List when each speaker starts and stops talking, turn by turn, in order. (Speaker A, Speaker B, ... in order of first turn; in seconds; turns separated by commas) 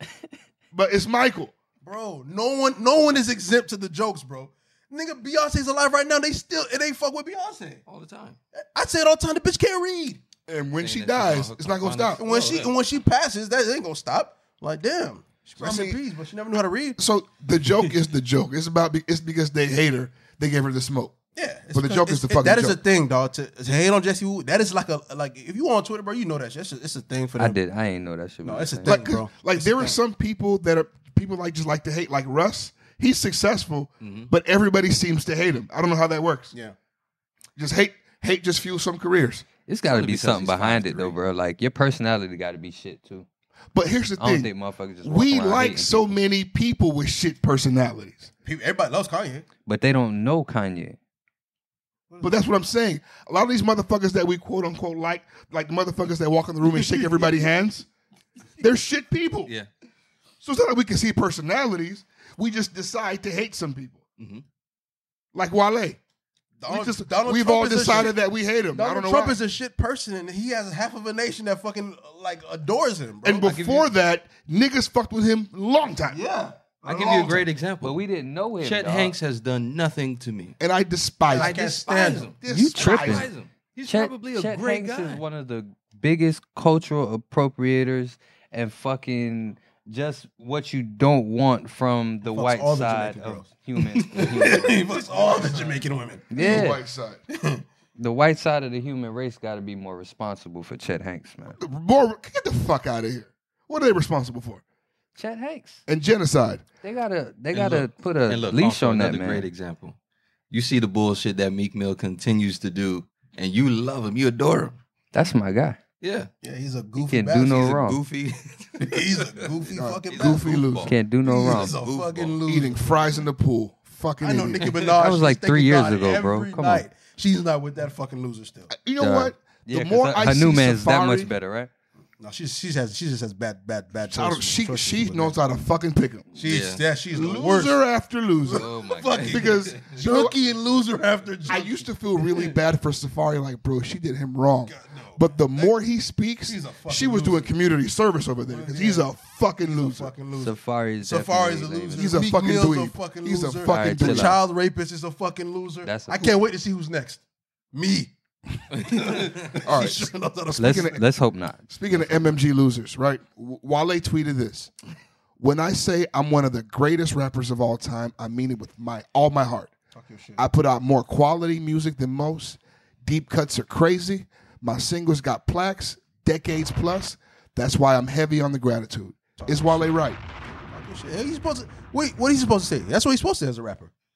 Speaker A: 0.7-1.5, Speaker B: 1.8-7.8, Speaker C: 7.9-8.4, Speaker B: 8.5-10.2, Speaker A: 10.5-12.2, Speaker C: 10.8-12.7, Speaker B: 12.2-17.0, Speaker A: 15.6-16.0, Speaker A: 17.0-21.1, Speaker B: 21.4-27.6, Speaker A: 21.7-22.8, Speaker D: 27.4-29.0, Speaker B: 28.4-30.0, Speaker A: 28.9-36.5, Speaker C: 34.0-34.3, Speaker A: 37.6-39.4, Speaker D: 39.7-43.2, Speaker C: 39.9-41.1, Speaker A: 43.7-44.5, Speaker D: 44.2-46.1, Speaker A: 45.0-48.3, Speaker B: 48.4-49.5, Speaker D: 49.7-51.0, Speaker B: 52.1-52.5, Speaker A: 52.2-57.9, Speaker B: 56.6-57.4, Speaker A: 58.6-59.5, Speaker A: 60.4-64.0, Speaker C: 64.2-64.4, Speaker A: 65.3-66.0, Speaker B: 66.6-68.2, Speaker A: 66.7-69.4, Speaker B: 68.7-73.5, Speaker A: 73.2-76.2, Speaker C: 73.4-73.9, Speaker B: 76.1-77.5, Speaker C: 76.8-78.0, Speaker D: 77.8-79.1, Speaker C: 78.6-80.6, Speaker A: 80.6-81.5, Speaker B: 81.3-82.3, Speaker C: 81.3-85.2, Speaker A: 82.4-83.3, Speaker D: 82.5-83.3, Speaker D: 83.9-94.8, Speaker B: 92.2-96.6, Speaker C: 94.2-94.6, Speaker C: 95.1-95.7, Speaker D: 96.3-96.8, Speaker A: 96.4-97.2, Speaker B: 97.3-97.6, Speaker D: 98.0-101.6, Speaker A: 101.6-104.6, Speaker D: 105.2-105.8, Speaker A: 105.9-106.6, Speaker D: 106.8-109.5, Speaker C: 107.5-109.9, Speaker C: 110.5-114.8, Speaker D: 115.1-115.8, Speaker C: 116.0-116.3, Speaker B: 116.4-117.8, Speaker D: 117.0-118.0, Speaker C: 117.6-119.5, Speaker B: 118.8-120.7, Speaker A: 119.8-121.4, Speaker C: 120.1-120.9, Speaker D: 120.8-121.8, Speaker B: 121.2-123.1, Speaker C: 121.8-122.4, Speaker A: 122.5-124.7, Speaker B: 124.2-128.7, Speaker D: 125.0-126.8, Speaker A: 128.7-131.3, Speaker D: 129.0-131.7, Speaker B: 132.2-135.4, Speaker A: 134.1-136.3, Speaker B: 136.3-137.8, Speaker C: 136.4-136.8, Speaker A: 137.1-138.7, Speaker B: 138.4-142.5, Speaker C: 138.5-139.8, Speaker A: 139.3-140.3, Speaker A: 141.5-150.1, Speaker B: 144.6-145.7, Speaker B: 146.5-147.6, Speaker B: 148.5-158.1, Speaker D: 150.4-152.2, Speaker A: 151.9-154.4, Speaker D: 153.6-154.4, Speaker D: 155.8-156.4, Speaker B: 158.7-161.1, Speaker A: 159.6-161.0, Speaker D: 160.6-161.7, Speaker A: 161.7-164.7, Speaker A: 165.4-169.7, Speaker B: 169.9-170.4, Speaker A: 170.4-180.2, Speaker B: 179.4-180.0, Speaker B: 180.7-183.9